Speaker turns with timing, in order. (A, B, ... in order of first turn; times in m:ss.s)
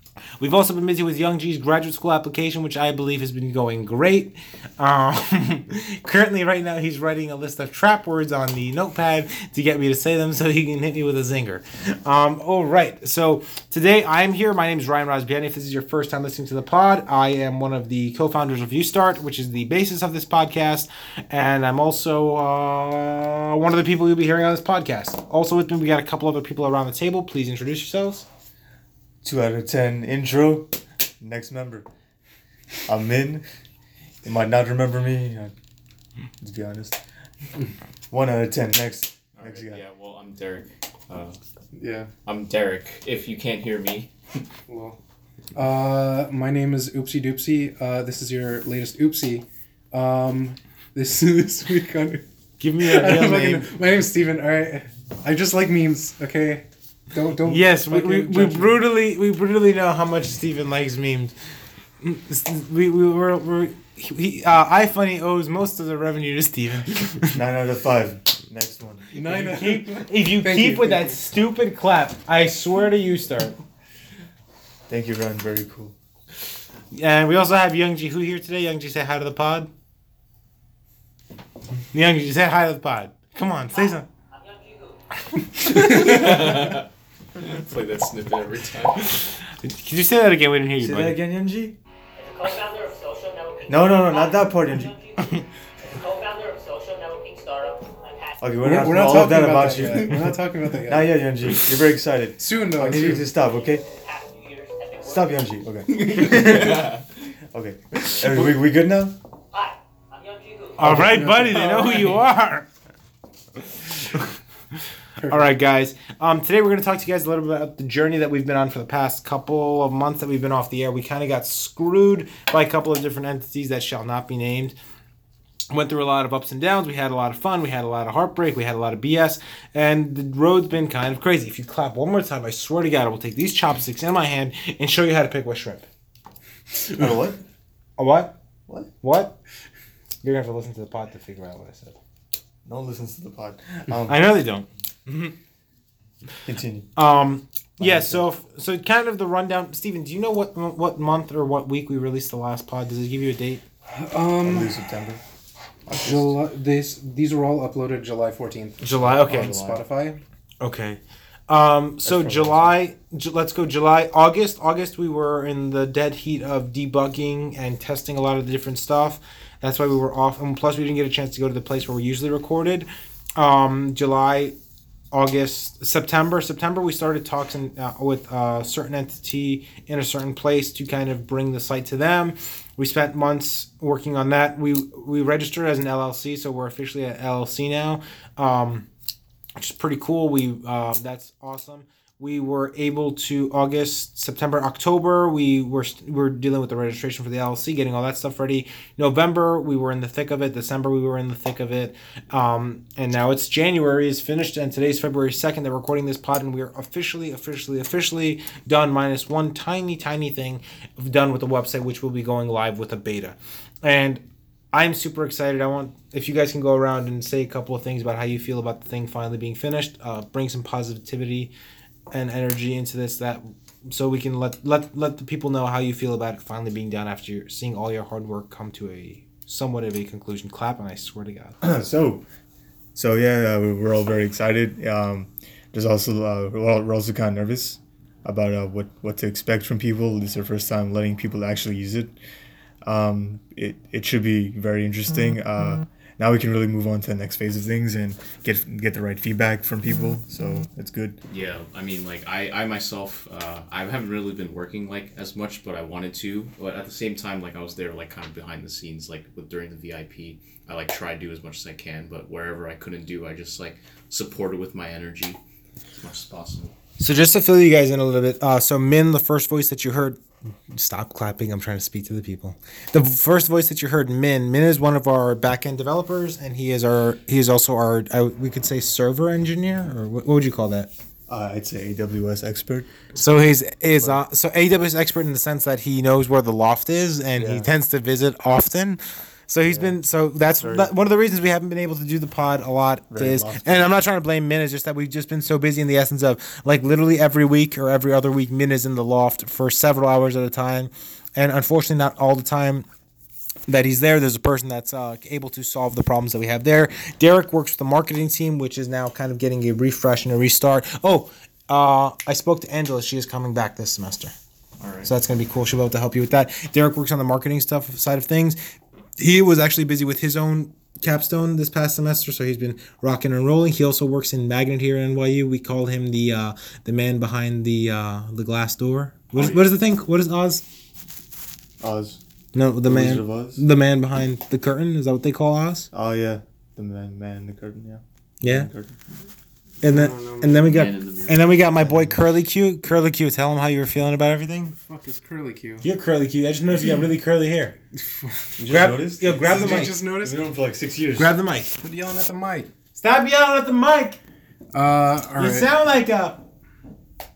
0:00.4-0:28.3 A
0:29.2-0:31.9 B
0:32.9-0:33.4 B
0:34.2-0:35.5 B
0:36.4-0:37.0 B
0:38.1-0:39.8 B
0:39.4-0:41.4 C
0:41.8-0:42.1 D
0:42.2-0:44.1 C
0:44.7-0:45.0 D
0:45.6-0:52.2 D
0:52.6-0:53.7 A
0:52.8-0:58.8 D
0:57.5-1:01.4 A
1:02.0-1:07.4 A
1:07.3-1:09.6 B
1:09.1-1:11.2 D
1:09.3-1:13.6 A
1:14.9-1:15.9 B
1:16.9-1:19.7 A
1:21.9-1:24.1 A
1:23.7-1:25.6 E
1:25.6-1:26.2 A
1:25.8-1:29.4 C
1:29.5-1:31.2 A
1:30.8-1:31.8 B
1:32.2-1:38.5 E
1:33.7-1:34.9 B
1:38.4-1:43.8 B
1:38.6-1:41.6 D
1:42.4-1:43.3 D
1:43.4-1:45.4 E
1:45.0-1:46.9 B
1:46.2-1:46.6 D
1:47.5-1:49.2 B
1:49.5-1:51.1 E
1:50.8-1:52.7 A
1:50.8-1:51.4 B
1:50.9-1:52.2 D
1:55.2-1:55.5 D
1:55.2-2:04.8 A
2:05.7-2:15.9 A
2:16.9-2:17.4 B
2:18.0-2:18.4 A
2:19.0-2:19.4 A
2:20.2-2:22.0 A
2:22.6-2:24.3 B
2:24.1-2:25.3 A
2:26.4-2:26.9 B
2:27.0-2:33.6 A
2:27.8-2:28.2 B
2:33.9-2:34.8 D
2:34.4-2:35.2 B
2:35.9-2:40.2 D
2:35.9-2:36.3 B
2:38.8-2:39.6 A
2:39.0-2:39.8 B
2:40.6-2:54.6 A
2:42.1-2:42.7 B
2:55.1-3:08.9 A
3:09.6-3:41.5 A
3:42.1-3:51.8 A
3:51.6-3:52.2 B
3:53.0-4:02.2 B
4:02.8-4:11.2 B
4:11.3-4:25.4 C
4:26.0-4:26.7 C
4:27.0-4:40.9 A
4:41.3-4:43.1 B
4:43.1-5:02.9 A
4:47.4-4:47.7 B
4:49.7-4:50.0 B
4:50.6-4:50.9 B
4:53.1-4:53.9 B
5:03.7-5:14.3 A
5:14.8-5:15.1 B
5:15.0-5:18.6 A
5:19.2-5:30.6 A
5:29.3-5:29.6 B
5:31.8-5:32.2 B
5:32.5-5:35.9 A
5:32.8-5:33.6 B
5:35.9-5:39.0 B
5:38.4-5:38.7 A
5:39.8-5:44.8 A
5:39.8-5:40.6 D
5:40.6-5:41.6 C
5:41.8-5:42.2 B
5:44.8-5:45.8 D
5:45.8-5:47.8 A
5:48.2-5:48.5 D
5:48.6-5:51.3 B
5:48.7-5:49.9 A
5:49.4-5:50.4 D
5:51.2-5:51.7 A
5:51.8-5:52.7 D
5:53.0-5:54.2 A
5:54.7-5:55.7 D
5:55.4-5:56.4 A